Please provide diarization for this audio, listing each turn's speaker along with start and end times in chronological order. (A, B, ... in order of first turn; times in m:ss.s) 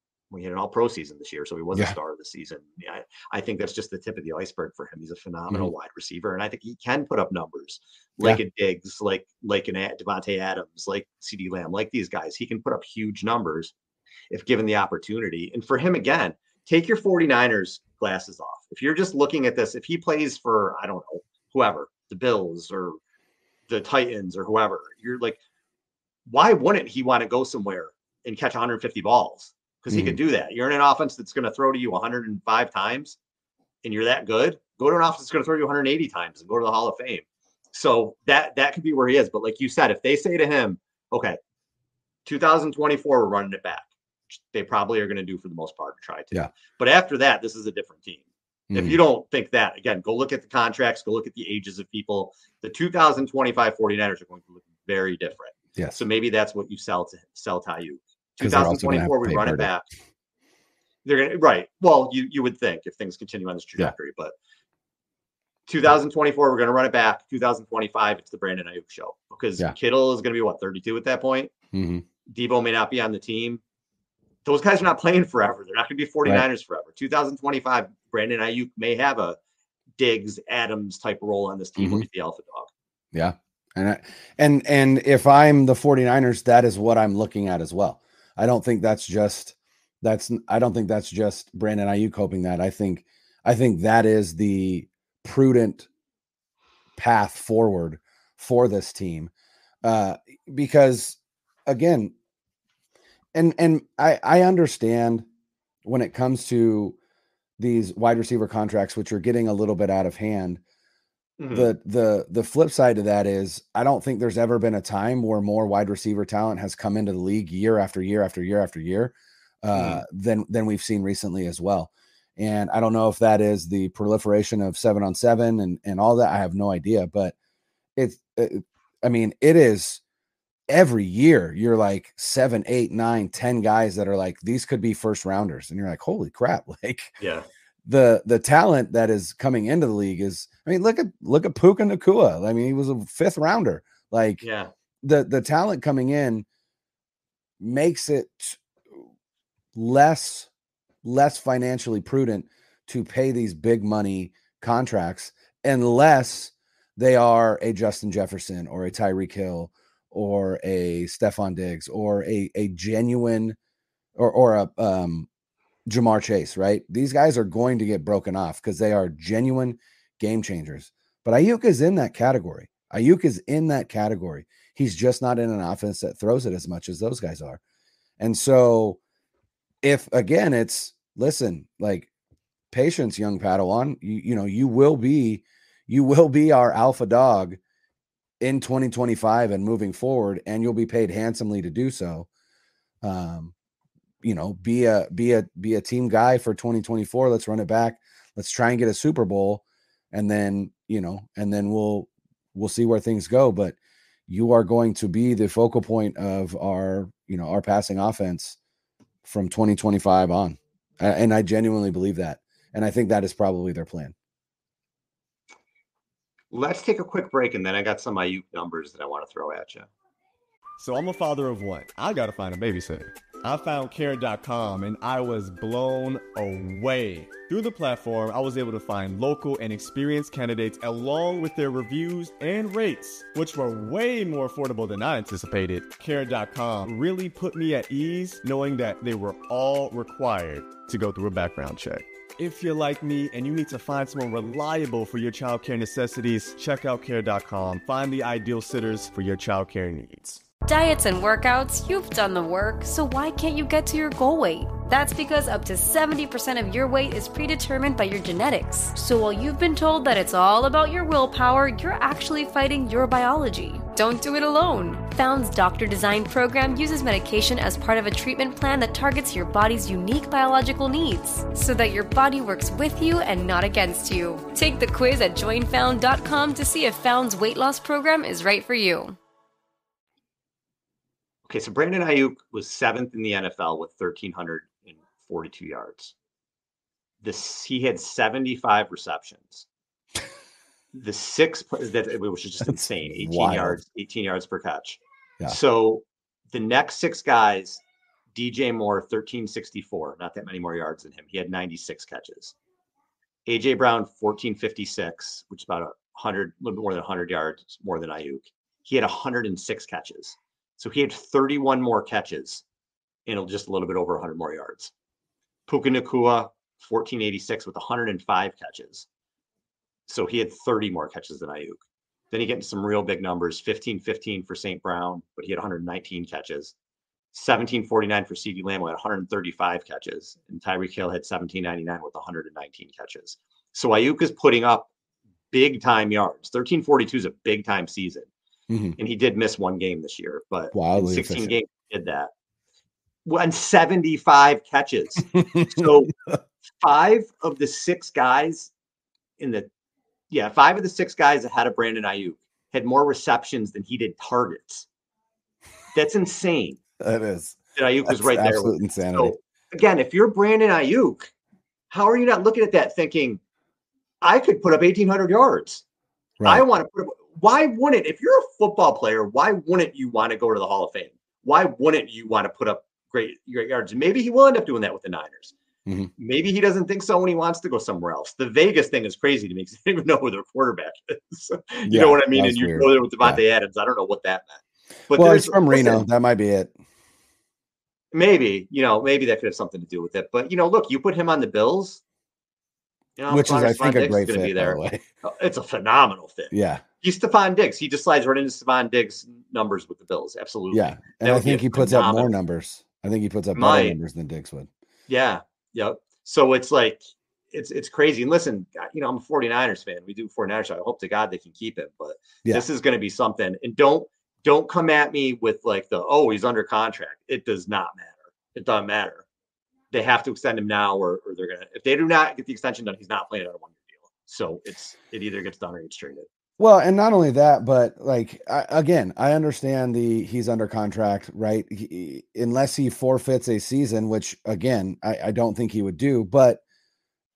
0:00.3-0:13.7 A
0:14.3-0:23.0 A
0:23.7-0:25.4 A
0:26.3-0:33.2 A
0:29.9-0:30.2 B
0:33.8-0:41.4 A
0:42.3-0:59.9 A
0:48.7-0:49.0 B
0:55.8-0:56.0 B
0:58.4-0:59.7 B
1:01.0-1:04.3 A
1:05.7-1:11.5 A
1:11.7-1:12.0 B
1:12.3-1:13.6 A
1:14.4-1:19.4 A
1:20.0-1:22.7 A
1:21.8-1:22.0 B
1:23.1-1:35.9 B
1:37.0-1:39.3 B
1:39.8-1:42.1 B
1:43.3-1:45.3 B
1:45.8-1:47.0 B
1:47.6-1:50.6 B
1:51.4-1:51.7 A
1:51.5-2:07.4 B
1:59.7-2:00.0 A
2:08.0-2:10.0 B
2:10.7-2:17.1 B
2:17.2-2:17.5 A
2:17.8-2:24.4 B
2:24.4-2:24.7 A
2:25.0-2:26.5 B
2:27.6-2:28.6 B
2:29.8-2:30.5 B
2:31.0-2:43.6 B
2:44.2-2:45.3 B
2:45.9-2:57.6 B
2:58.2-2:59.0 B
2:59.8-3:02.1 B
3:02.7-3:07.6 B
3:08.4-3:12.3 B
3:13.0-3:13.5 B
3:14.2-3:23.8 B
3:24.3-3:28.6 B
3:29.2-3:34.1 B
3:36.5-3:39.9 A
3:40.8-4:10.4 C
4:10.7-4:39.2 D
4:41.5-4:46.1 A
4:47.2-4:49.7 A
4:50.9-4:57.8 A
4:52.6-4:53.8 B
4:58.3-5:02.6 A
5:03.5-5:12.6 A
5:13.3-5:14.9 A
5:15.7-5:19.1 A
5:20.1-5:26.7 A
5:27.3-5:34.9 A
5:35.5-5:38.3 A
5:38.7-5:39.0 B
5:39.0-5:42.3 A
5:40.7-5:41.6 B
5:43.3-5:46.1 A
5:45.3-5:46.4 B
5:46.8-5:48.7 A
5:49.4-5:49.7 A
5:50.3-5:54.9 A
5:55.9-5:56.8 A
5:57.0-5:59.4 B
5:57.8-6:01.3 A
6:01.9-6:03.4 A
6:04.2-6:05.8 A
6:06.4-6:15.5 A
6:15.9-6:16.1 B
6:16.2-6:26.0 A
6:21.9-6:23.4 B
6:25.1-6:26.7 B
6:28.1-6:32.0 A
6:33.2-6:42.3 A
6:33.3-6:35.0 B
6:36.5-6:36.8 B
6:40.7-6:44.7 B
6:43.5-6:44.0 A
6:45.1-6:47.0 A
6:47.5-6:59.2 A
6:59.9-7:06.3 A
7:06.6-7:16.6 B